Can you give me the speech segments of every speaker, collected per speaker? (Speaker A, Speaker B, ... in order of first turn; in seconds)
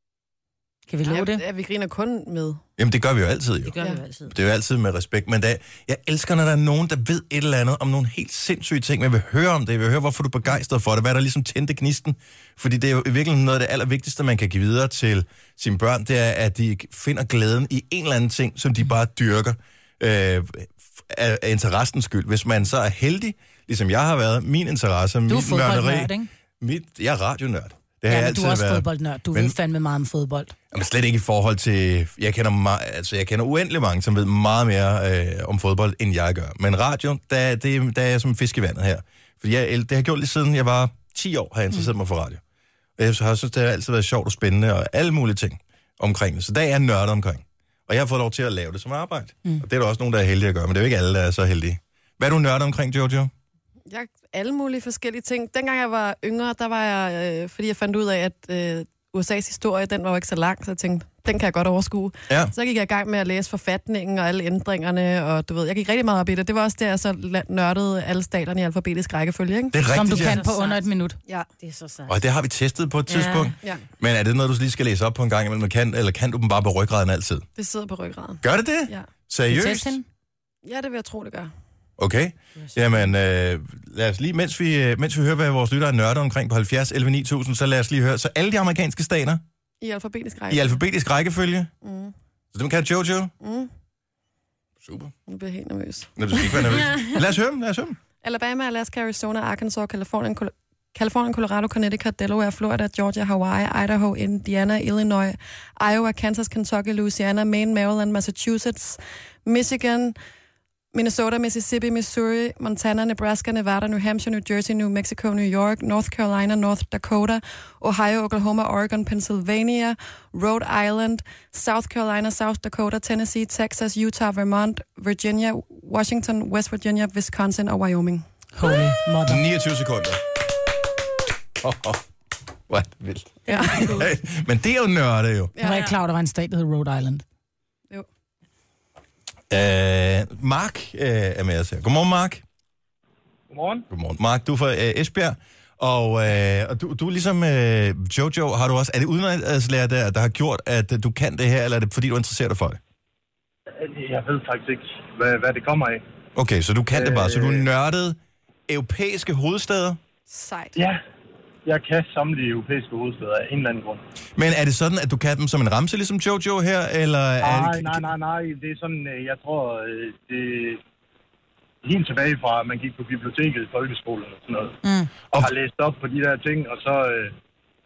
Speaker A: 0.9-1.4, 25.3-26.3, 28.1-30.5, 69.9-71.2, 79.5-80.0, 128.6-129.4, 135.6-137.2, 174.8-175.1
Speaker B: 1.1-2.6, 53.9-69.8, 77.5-79.1, 80.6-81.5, 89.8-90.8, 91.8-92.1, 93.4-93.7, 95.3-96.8, 98.2-110.2, 110.9-128.2, 133.5-134.0, 135.6-135.9, 160.3-160.8
Speaker C: 2.8-3.7, 4.3-29.5, 30.7-42.4, 43.0-53.3, 69.7-70.4, 72.1-77.5, 78.4-80.0, 82.0-89.4, 90.5-91.7, 92.5-93.3, 94.8-95.1, 96.2-98.0, 129.2-130.2, 131.6-132.0, 132.7-135.5, 139.5-142.4, 143.9-152.8, 156.3-158.2, 158.7-160.0, 164.4-168.1
Speaker D: 3.6-4.3, 70.1-70.8, 71.6-72.2, 73.1-73.5, 82.6-83.0, 133.5-133.8
Speaker E: 143.5-143.8, 153.8-156.0, 156.9-157.7, 160.7-161.0, 161.6-164.0, 167.4-170.8, 171.8-174.8, 175.4-177.3